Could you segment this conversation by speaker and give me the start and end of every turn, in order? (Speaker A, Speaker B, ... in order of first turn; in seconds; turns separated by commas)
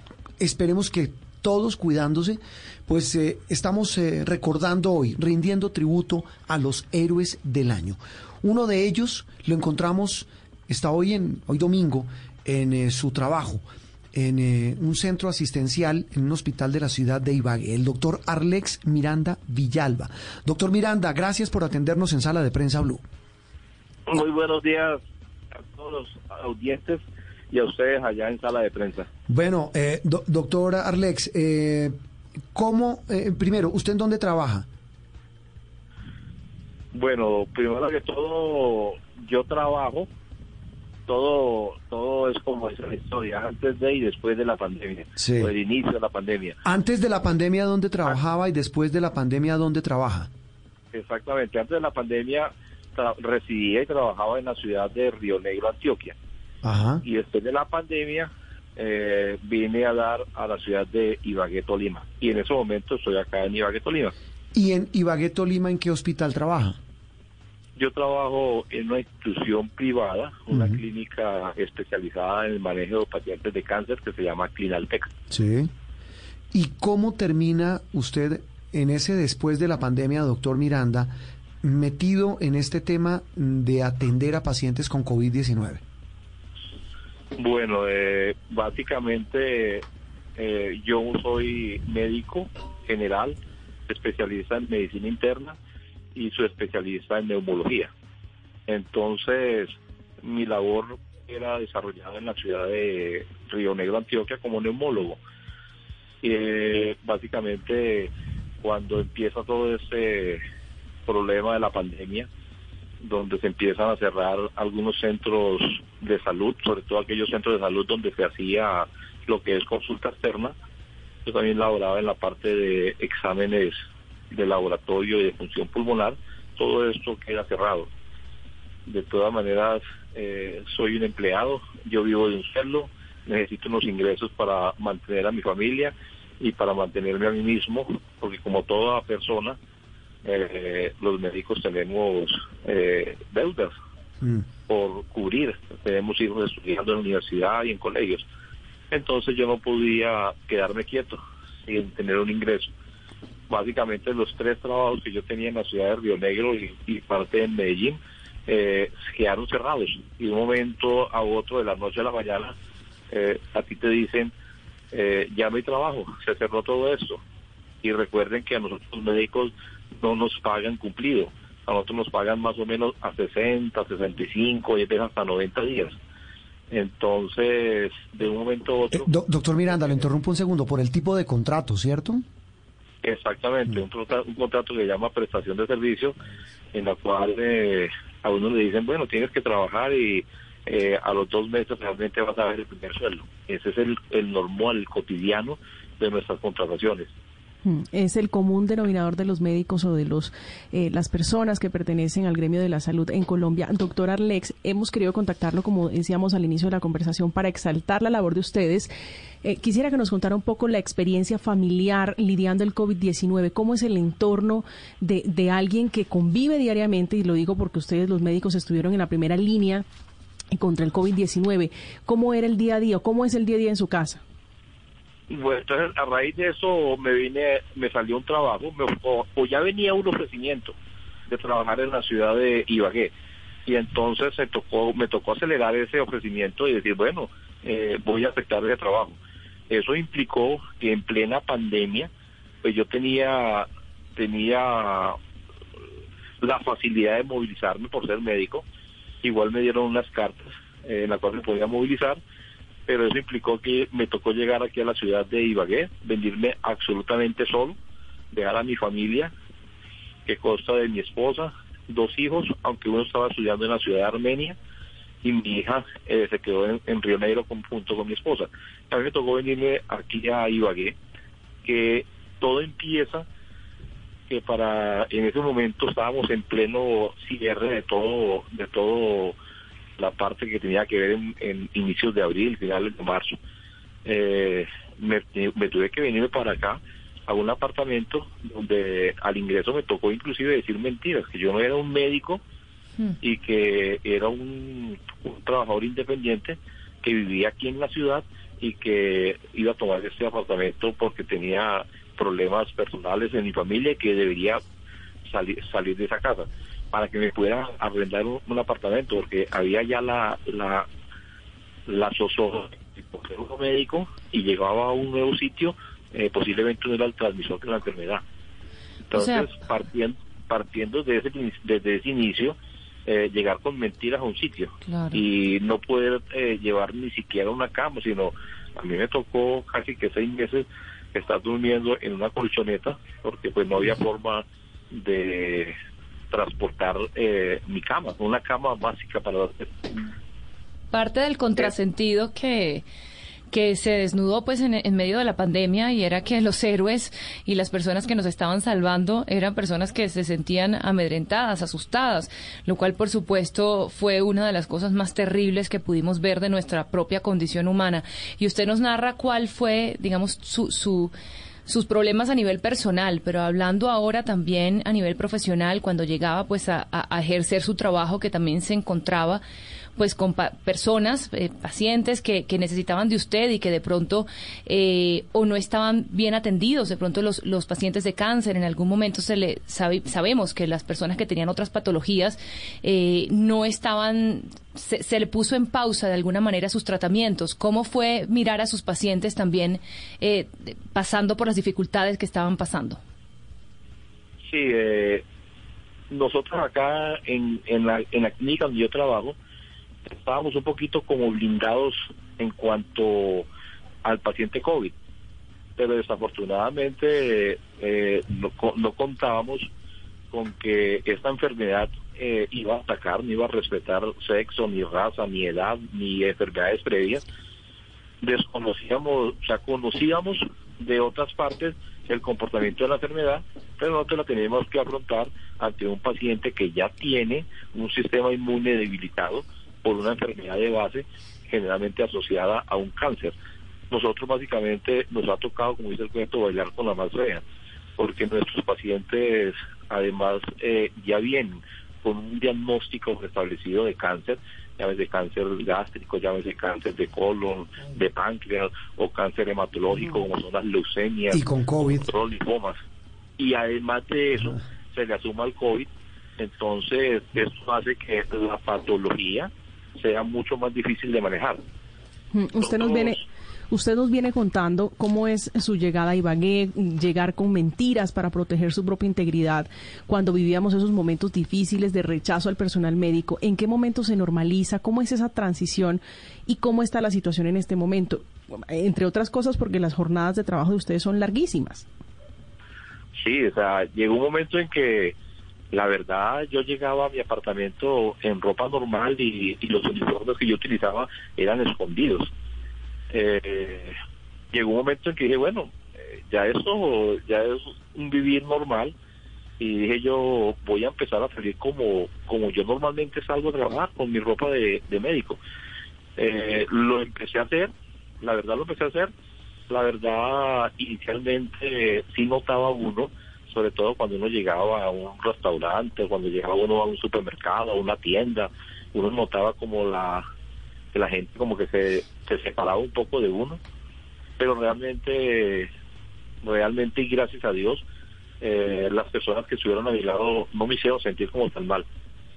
Speaker A: 0.4-13.6, Speaker A: 14.1-23.0, Speaker B: 24.1-25.0, Speaker B: 25.5-29.1, Speaker A: 29.3-31.9, Speaker A: 32.5-34.7, Speaker B: 36.9-40.1, Speaker B: 41.1-46.6, Speaker A: 45.2-45.5, Speaker A: 46.6-50.3, Speaker B: 50.9-56.2, Speaker A: 56.6-57.0, Speaker B: 57.0-64.1, Speaker A: 64.5-66.8, Speaker B: 67.8-75.1, Speaker A: 70.5-70.8, Speaker A: 75.3-75.7, Speaker A: 76.5-85.8, Speaker B: 87.4-89.8, Speaker B: 90.4-95.6, Speaker B: 96.1-97.9, Speaker B: 98.7-105.2, Speaker B: 106.2-108.1, Speaker B: 108.6-110.4, Speaker B: 111.1-112.3, Speaker B: 113.0-120.5, Speaker B: 121.2-123.8, Speaker B: 124.3-127.9, Speaker B: 128.9-139.6, Speaker B: 140.2-143.7, Speaker B: 144.7-148.2, Speaker B: 148.9-152.7, Speaker B: 153.5-162.5, Speaker B: 163.1-164.3, Speaker B: 164.9-167.2, Speaker B: 167.8-175.9, Speaker B: 176.7-179.1, Speaker A: 178.9-182.2, Speaker B: 179.7-180.0, Speaker B: 183.0-186.2, Speaker B: 186.7-197.1, Speaker C: 197.7-208.9, Speaker C: 209.4-219.8, Speaker C: 220.5-224.2, Speaker B: 225.3-230.7, Speaker B: 231.3-233.1, Speaker B: 233.7-239.2, Speaker B: 239.7-242.1, Speaker B: 242.6-245.2, Speaker B: 246.4-248.6, Speaker B: 249.2-252.2, Speaker B: 252.9-257.8, Speaker B: 258.3-259.3, Speaker B: 260.2-264.6, Speaker B: 265.2-270.9, Speaker B: 271.6-273.2, Speaker B: 274.3-279.4, Speaker B: 280.0-283.4, Speaker B: 284.1-292.4, Speaker B: 293.2-304.6, Speaker B: 305.2-310.9, Speaker B: 311.9-318.2, Speaker B: 319.1-322.6, Speaker D: 319.1-319.5, Speaker B: 323.1-335.8, Speaker D: 324.9-325.2, Speaker B: 336.3-340.0, Speaker D: 340.9-342.8, Speaker D: 343.5-361.1, Speaker D: 361.7-369.4, Speaker D: 369.9-393.0, Speaker B: 394.5-395.2, Speaker B: 396.1-399.4, Speaker B: 400.1-403.5, Speaker B: 404.0-404.9, Speaker B: 405.8-409.6, Speaker B: 410.3-417.2, Speaker B: 418.2-433.4, Speaker B: 433.9-437.4, Speaker B: 438.0-451.4, Speaker A: 451.3-452.1, Speaker B: 452.0-452.8, Speaker B: 453.4-461.6, Speaker C: 462.3-481.9, Speaker B: 462.6-463.2, Speaker B: 483.2-485.2, Speaker B: 485.7-492.3, Speaker B: 493.1-493.9, Speaker B: 494.5-498.9, Speaker B: 499.6-505.4, Speaker B: 506.2-509.1, Speaker B: 509.7-520.2, Speaker B: 520.9-523.6, Speaker B: 524.4-525.7, Speaker B: 526.4-527.8, Speaker B: 528.4-531.9